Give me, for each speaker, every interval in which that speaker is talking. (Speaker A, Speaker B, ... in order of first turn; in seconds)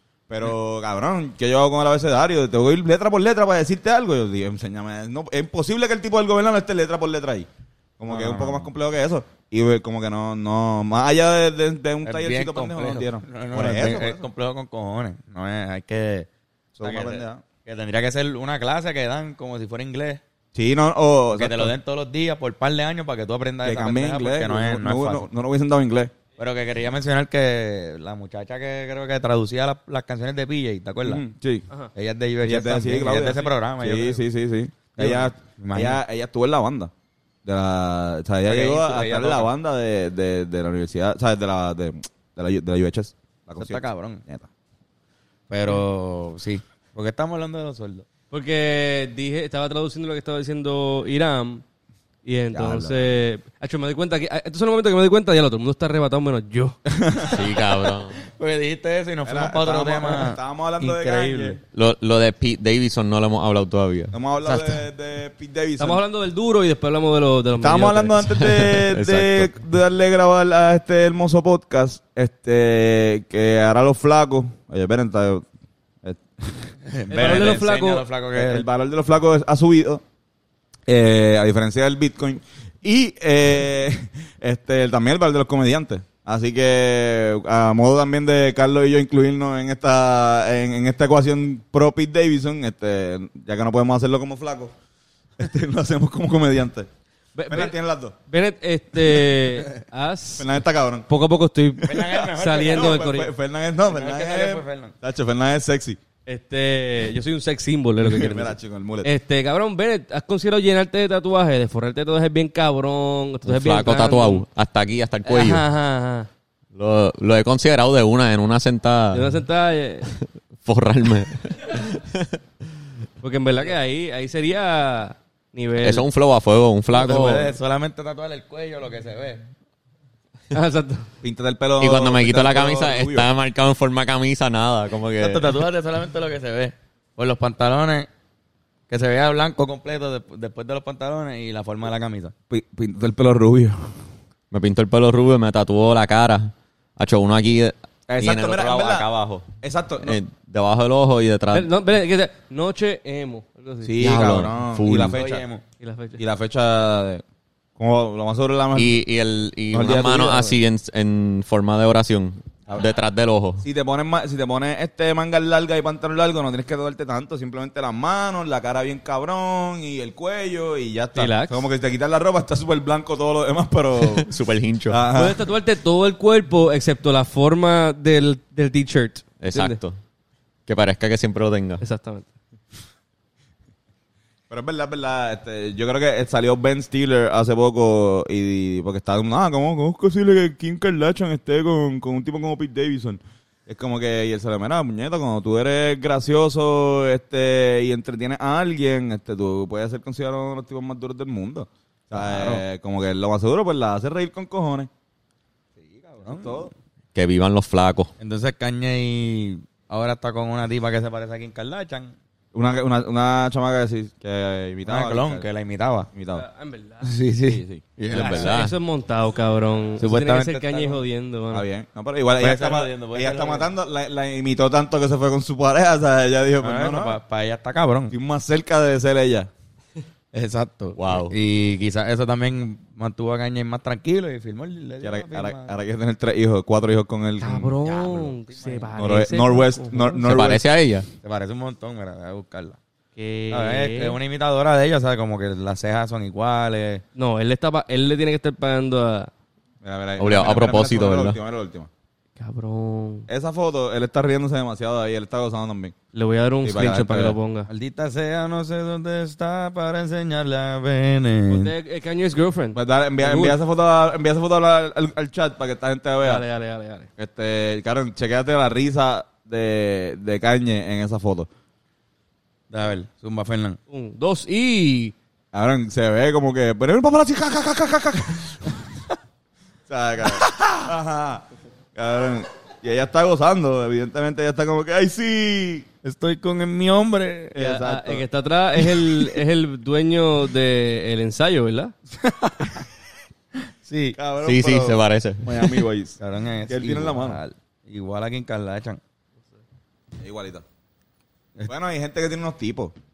Speaker A: 0.3-7.5, 8.0-14.2, 16.8-17.4, 20.5-21.8, 23.6-26.1, 31.0-31.7, 32.4-36.9, 37.5-44.5, 52.5-53.2, 56.9-57.5, 59.2-61.6, 64.1-66.0, 67.6-75.5, 76.0-77.7, 78.3-80.0, 80.9-94.7, 95.4-96.9, 97.5-98.2, 100.4-101.1, 102.7-106.0, 108.0-109.1, 131.2-133.3, 142.5-144.1, 148.1-150.2, 153.8-155.4, 156.2-157.2, 157.8-159.0, 159.7-160.6, 163.6-174.3, 174.9-175.5, 184.5-204.9, 206.2-206.7, 212.5-215.5, 216.1-216.5, 217.5-217.8, 221.5-227.2, 228.1-229.5, 235.0-237.8, 239.0-240.6, 249.8-251.9, 253.3-255.9, 256.6-257.4, 262.7-266.4, 267.2-271.5, 275.5-278.8, 279.9-285.9, 287.6-288.2, 294.2-297.4, 300.2-300.6, 301.7-302.9
Speaker B: 8.1-8.7, 12.0-16.3, 16.8-20.2, 21.3-25.3, 26.4-31.2, 31.9-34.2, 35.0-36.0, 38.5-39.5, 43.6-44.2, 45.5-48.1, 58.2-61.6, 76.8-78.7, 101.8-103.1, 103.9-104.9, 126.9-129.5, 135.2-138.1, 138.9-142.3, 155.1-155.6, 202.1-202.6, 205.8-206.7, 208.2-212.2, 214.8-216.1, 217.0-218.5, 220.0-221.0, 222.4-223.7, 226.6-228.1, 230.3-235.8, 237.8-238.9, 241.2-242.8, 243.5-247.0, 257.7-261.7, 272.7-273.8, 286.0-287.6, 292.1-292.9, 293.8-294.2, 296.2-299.0
Speaker C: 48.3-51.6, 52.3-56.8, 65.8-68.3, 77.1-78.0, 97.4-97.8, 98.3-100.5, 101.1-103.3, 106.3-114.5, 115.2-116.3, 119.1-120.1, 123.2-126.0, 130.5-131.1, 151.5-154.0, 155.8-156.2, 171.2-171.7, 175.1-179.8, 181.8-182.3, 216.3-217.1, 218.1-221.7, 237.4-240.2, 243.2-244.2, 247.2-249.3, 252.4-253.3, 256.1-257.7, 261.5-263.6, 266.2-267.1, 273.9-275.1, 287.6-291.9
Speaker D: 57.2-58.2, 61.7-64.2, 68.3-69.5, 113.5-115.7, 116.8-119.4, 120.6-122.4, 125.8-127.5, 131.8-135.5, 144.5-149.5, 150.0-151.7, 154.0-155.2, 158.8-163.6, 174.0-175.0, 179.4-180.0, 180.7-181.8, 207.2-208.1, 218.1-218.7, 231.0-231.4, 240.2-241.1, 250.2-251.4, 294.4-295.9